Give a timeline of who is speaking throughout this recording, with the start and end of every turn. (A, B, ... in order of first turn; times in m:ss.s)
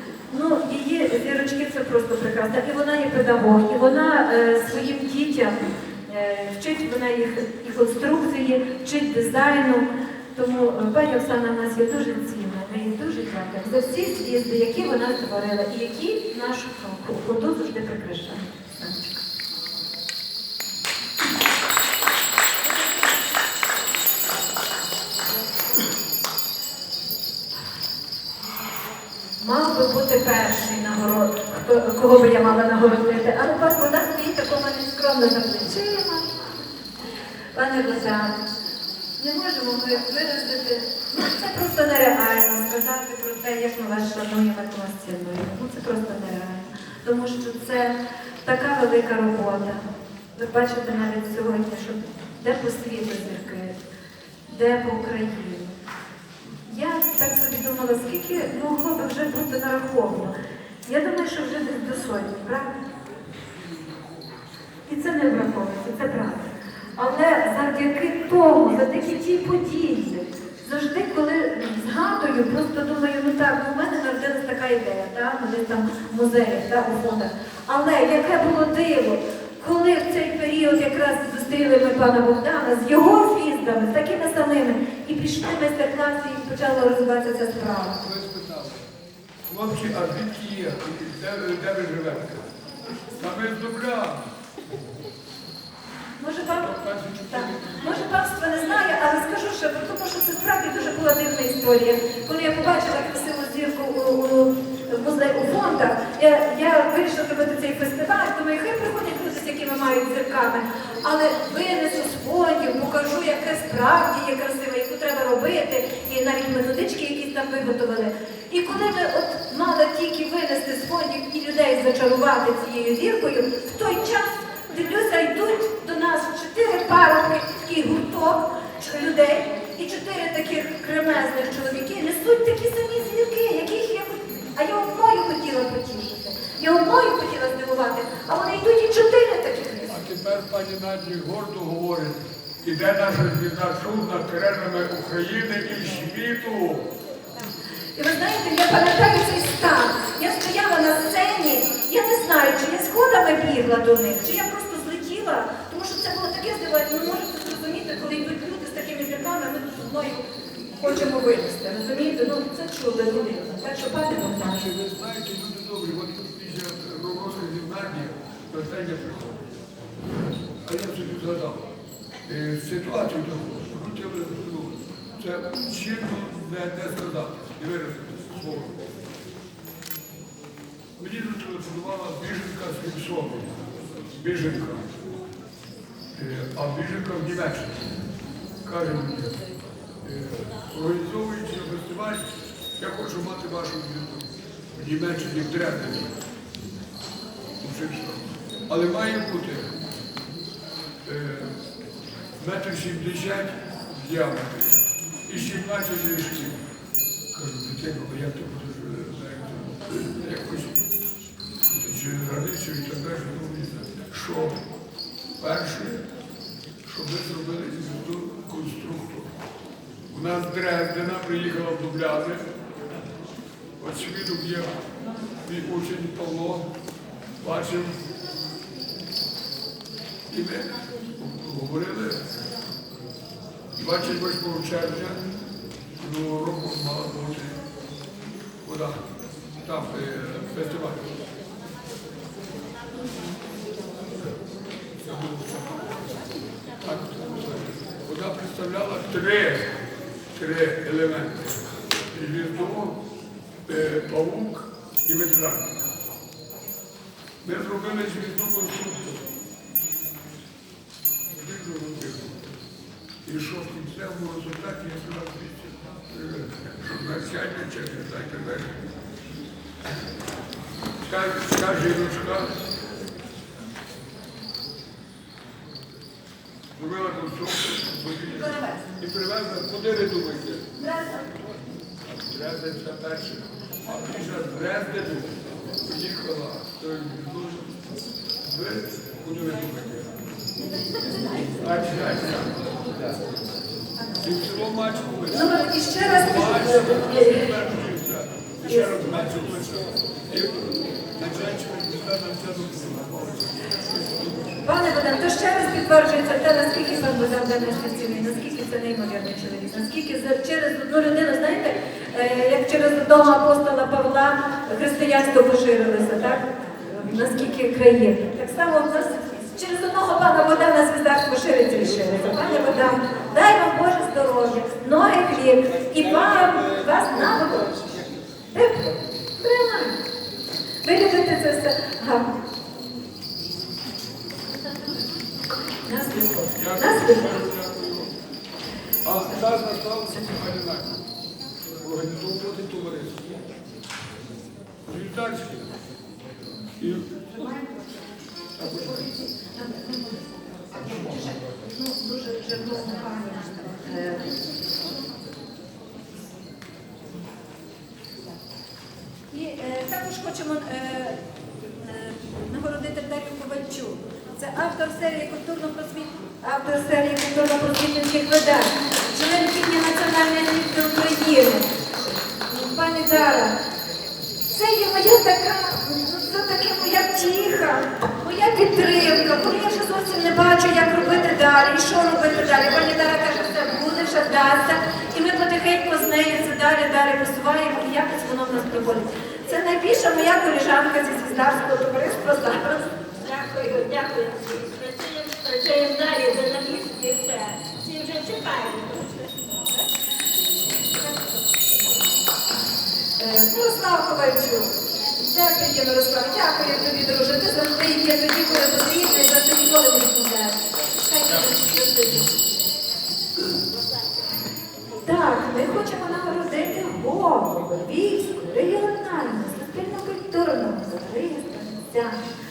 0:00.3-0:19.2 A
0:29.4-0:36.3 A
0:37.6-0:38.4 A
0:39.2-0:49.8 A
0:50.4-0:53.8 A
0:54.5-0:55.8 A
0:56.7-1:00.4 A
1:00.9-1:02.8 A
1:04.9-1:28.0 A
1:28.0-1:28.8 B
1:29.5-1:32.5 B
1:33.2-1:34.2 B
1:36.2-1:36.7 A
1:36.6-1:38.1 B
1:37.3-2:20.0 A
2:19.9-2:26.9 B
2:28.0-2:40.2 A
2:40.8-2:44.6 A
2:44.4-2:49.4 B
2:50.6-2:51.6 B
2:52.3-2:58.8 B
3:01.0-3:03.5 B
3:04.2-3:04.9 B
3:06.2-3:07.9 B
3:08.6-3:09.3 B
3:10.0-3:12.3 B
3:12.8-3:16.1 B
3:17.6-3:19.7 B
3:21.0-3:21.5 B
3:22.4-3:26.6 B
3:27.3-3:30.8 B
3:31.7-3:34.6 B
3:35.4-3:36.0 B
3:36.9-3:39.3 B
3:40.1-3:42.4 B
3:43.8-3:44.7 B
3:45.4-3:46.7 B
3:47.4-3:48.0 B
3:50.3-3:52.2 B
3:53.8-3:55.2 B
3:56.0-3:57.6 B
3:58.6-3:59.0 B
3:59.6-4:01.1 B
4:05.0-4:05.8 B
4:06.8-4:09.7 B
4:10.4-4:11.5 B
4:12.1-4:13.0 B
4:13.7-4:15.8 B
4:17.4-4:19.2 B
4:21.3-4:22.4 B
4:23.2-4:28.8 B
4:31.0-4:32.6 B
4:36.8-4:40.7 B
4:38.4-4:38.8 A
4:40.8-4:41.2 A
4:42.0-4:47.7 B
4:48.4-4:50.1 B
4:51.6-4:53.2 B
4:54.2-4:55.5 B
4:55.3-4:57.5 A
4:56.0-5:04.6 B
5:04.6-5:27.8 A
5:28.5-5:30.0 A
5:30.8-5:32.3 A
5:35.8-5:37.4 A
5:36.6-5:38.1 B
5:39.0-5:41.0 B
5:41.8-5:43.4 B
5:44.9-5:45.7 B
5:46.8-5:47.2 B
5:48.6-5:49.1 B
5:49.4-5:54.3 A
5:59.3-6:01.2 A
6:01.8-6:13.6 A
6:14.5-6:32.9 A
6:33.2-6:39.7 C
6:43.2-6:52.3 A
6:55.0-7:02.2 A